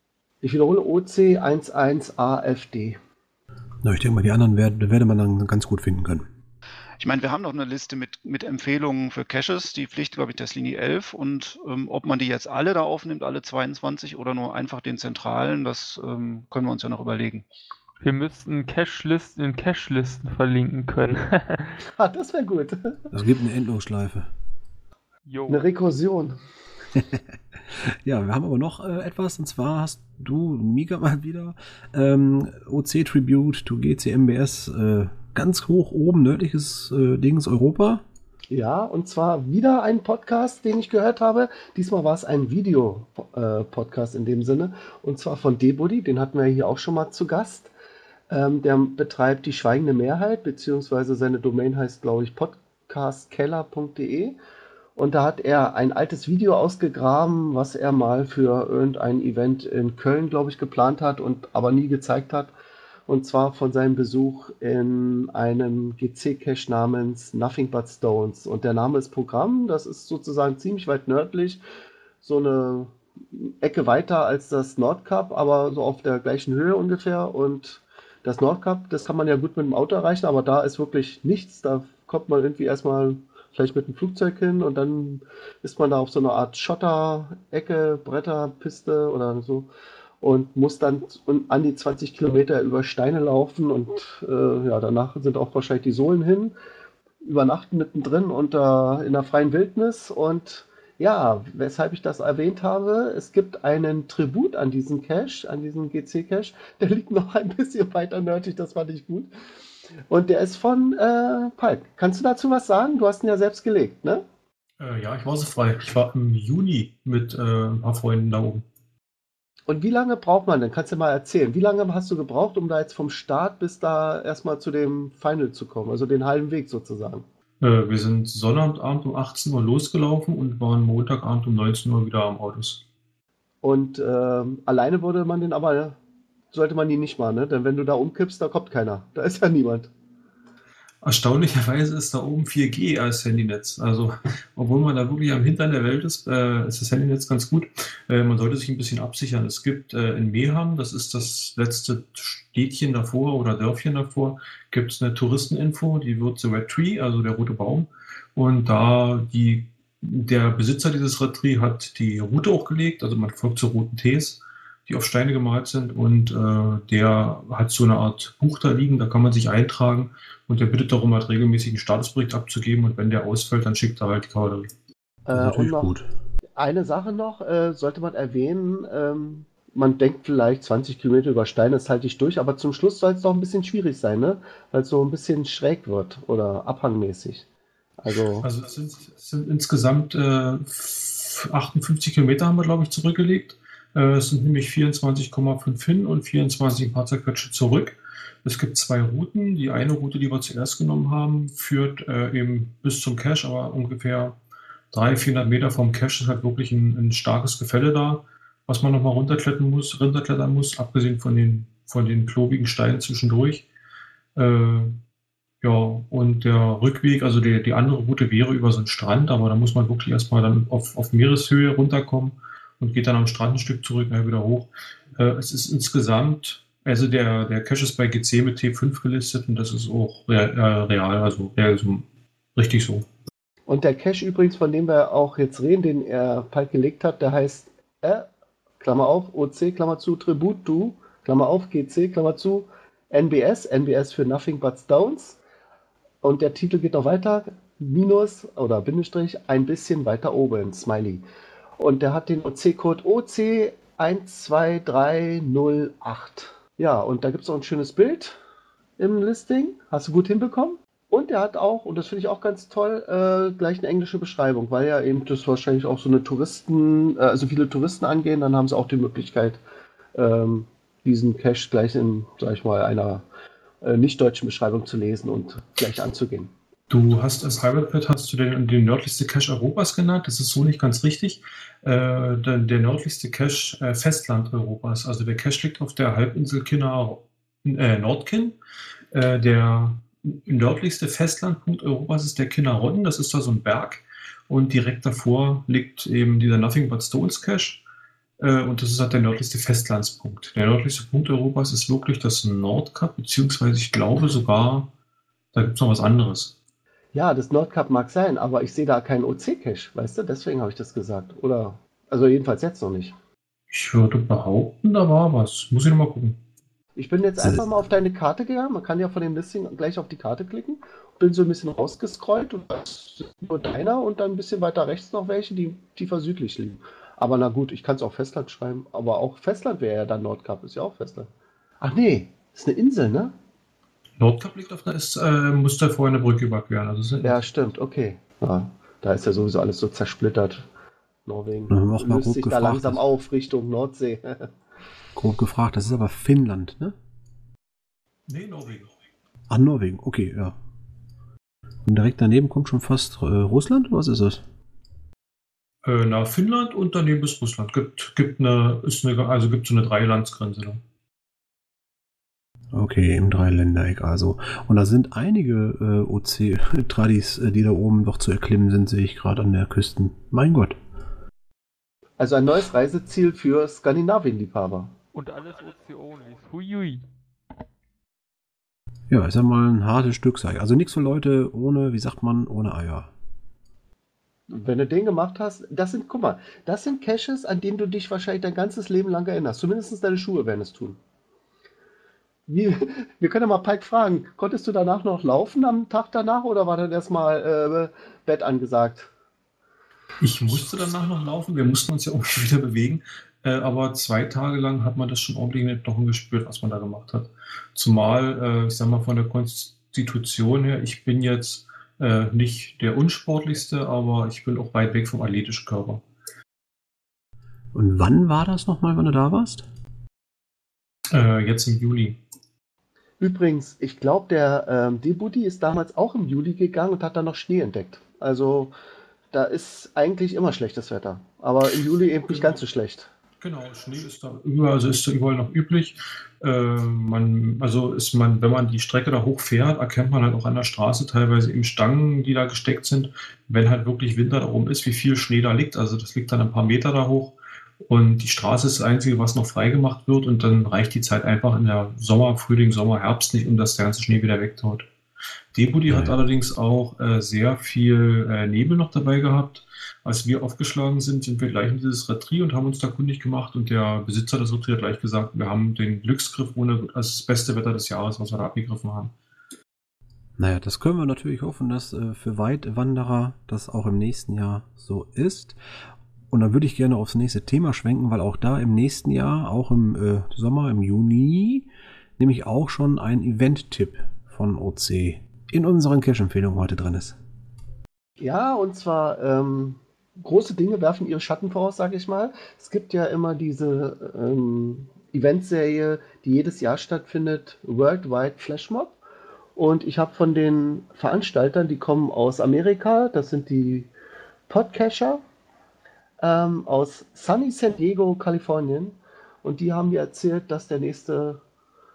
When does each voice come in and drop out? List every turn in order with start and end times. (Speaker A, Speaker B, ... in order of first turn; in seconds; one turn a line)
Speaker A: 0.4-3.0
Speaker B: 3.8-6.3
Speaker C: 7.0-17.4
Speaker D: 18.0-21.8
Speaker A: 22.0-23.1
Speaker B: 23.1-24.3
Speaker D: 25.2-25.7
Speaker A: 25.5-26.4
Speaker B: 27.0-38.0
Speaker A: 38.5-47.7
Speaker A: 48.3-54.4
Speaker A: 55.0-62.5
Speaker A: 63.1-71.6
Speaker A: 72.2-89.7
Speaker A: 90.2-96.5
Speaker A: 97.2-109.3
Speaker A: 110.1-114.2
Speaker E: 114.8-118.6
Speaker A: 119.7-127.3
Speaker E: 127.6-132.8
Speaker A: 133.6-136.0
Speaker A: 136.5-139.9
Speaker E: 141.0-174.7
Speaker A: 175.3-175.9
Speaker B: 175.3-176.1
Speaker A: 176.6-187.4
Speaker A: 188.0-188.5
Speaker E: 188.4-204.4
Speaker E: 204.9-213.7
Speaker E: 214.3-215.0
Speaker E: 215.6-233.1
Speaker A: 233.7-238.3
Speaker A: 238.8-245.4
Speaker A: 246.2-251.2
Speaker A: 251.8-258.4
Speaker A: 259.0-269.6
Speaker A: 270.1-273.2
Speaker A: 273.8-276.5
Speaker E: 276.9-288.6
Speaker E: 289.1-297.8
Speaker E: 298.4-304.9
Speaker E: 305.5-306.6
Speaker A: 307.1-313.1
Speaker E: 313.7-316.4
Speaker A: 317.0-331.3
Speaker B: 317.4-317.7
Speaker A: 331.8-333.3
Speaker E: 334.2-337.4
Speaker A: 337.2-340.6
Speaker A: 341.3-344.5
Speaker B: 341.7-343.0
Speaker B: 345.2-346.9
Speaker E: 348.3-349.0
Speaker B: 349.5-350.6
Speaker B: 351.9-354.4
Speaker E: 355.8-360.8
Speaker B: 362.7-370.8
Speaker A: 372.2-374.9
Speaker D: 375.1-377.1
Speaker B: 379.1-383.1
Speaker A: 384.5-391.0
Speaker A: 392.5-399.1
Speaker E: 400.2-416.1
Speaker B: 417.7-419.7
Speaker E: 421.1-422.2
Speaker A: 423.2-428.7
Speaker A: 429.3-433.1
Speaker E: 432.3-432.6
Speaker E: 433.4-447.4
Speaker E: 447.9-454.9
Speaker E: 455.5-469.1
Speaker B: 455.9-456.1
Speaker B: 470.4-475.6
Speaker B: 476.3-487.2
Speaker A: 488.2-499.0
Speaker A: 499.6-503.9
Speaker A: 504.5-505.2
Speaker A: 506.2-511.4